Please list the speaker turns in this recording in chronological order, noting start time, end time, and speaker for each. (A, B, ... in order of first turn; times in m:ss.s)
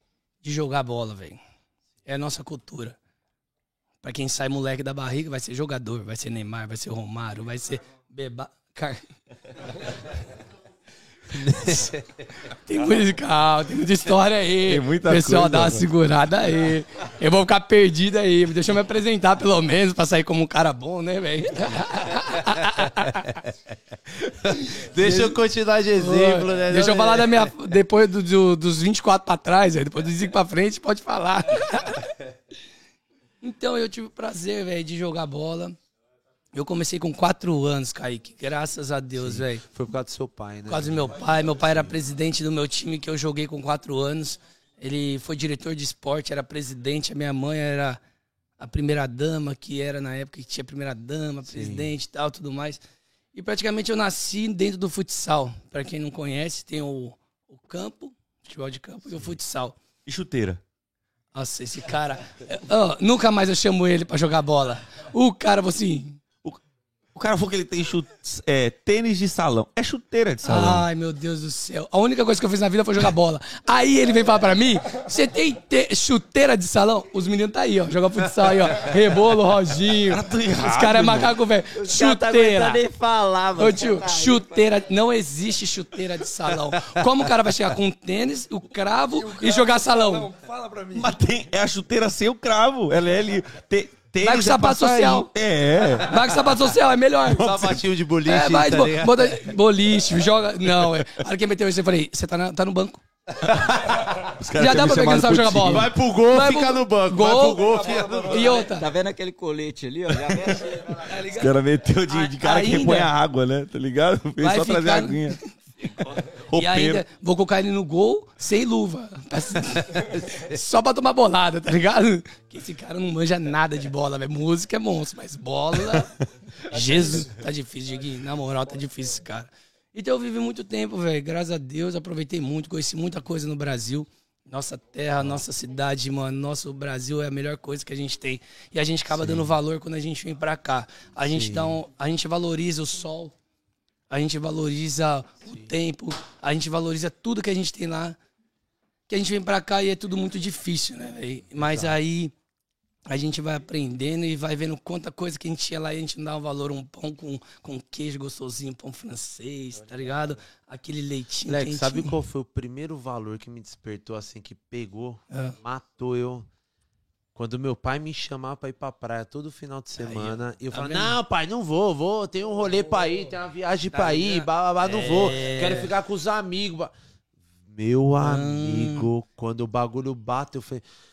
0:00.4-0:01.4 A
0:02.0-0:03.0 A
0:04.0-0:09.0 A
0:11.3-0:12.2 B
0:12.5-0:23.4 A
0:14.6-0:15.8 C
0:24.4-0:27.5 B
0:24.5-0:25.4 A
0:25.9-0:32.1 A
0:33.4-0:35.8 A
0:36.5-0:39.6 A
0:39.1-0:41.8 B
0:40.7-0:48.0 A
0:48.6-0:52.8 A
0:51.5-0:51.9 B
0:53.3-0:59.8 A
1:00.0-1:00.6 C
1:01.3-1:06.2 A
1:07.1-1:10.8 C
1:10.4-1:22.8 A
1:20.1-1:21.3 C
1:21.7-1:24.4 D
1:23.6-1:30.3 A
1:26.7-1:27.0 B
1:29.1-1:31.1 E
1:30.9-1:36.2 C
1:34.2-1:35.3 A
1:36.0-1:43.0 A
1:37.2-1:39.4 B
1:43.4-1:44.2 B
1:44.2-1:45.9 C
1:44.5-1:48.9 A
1:45.6-1:48.6 B
1:47.8-1:48.5 E
1:48.4-1:51.0 D
1:51.0-1:51.6 A
1:51.2-1:55.4 C
1:52.1-1:53.1 A
1:54.4-2:23.3 A
1:56.5-1:57.0 C
1:59.9-2:00.6 B
2:06.7-2:07.2 E
2:19.1-2:19.5 B
2:21.2-2:21.8 B
2:24.1-2:28.2 A
2:29.1-2:32.3 A
2:31.6-2:32.0 B
2:33.1-2:42.2 A
2:41.5-2:46.5 B
2:45.3-2:45.6 A
2:47.3-2:56.9 B
2:50.0-2:51.1 A
2:53.9-2:55.9 A
2:57.7-3:00.8 B
2:58.2-2:59.1 A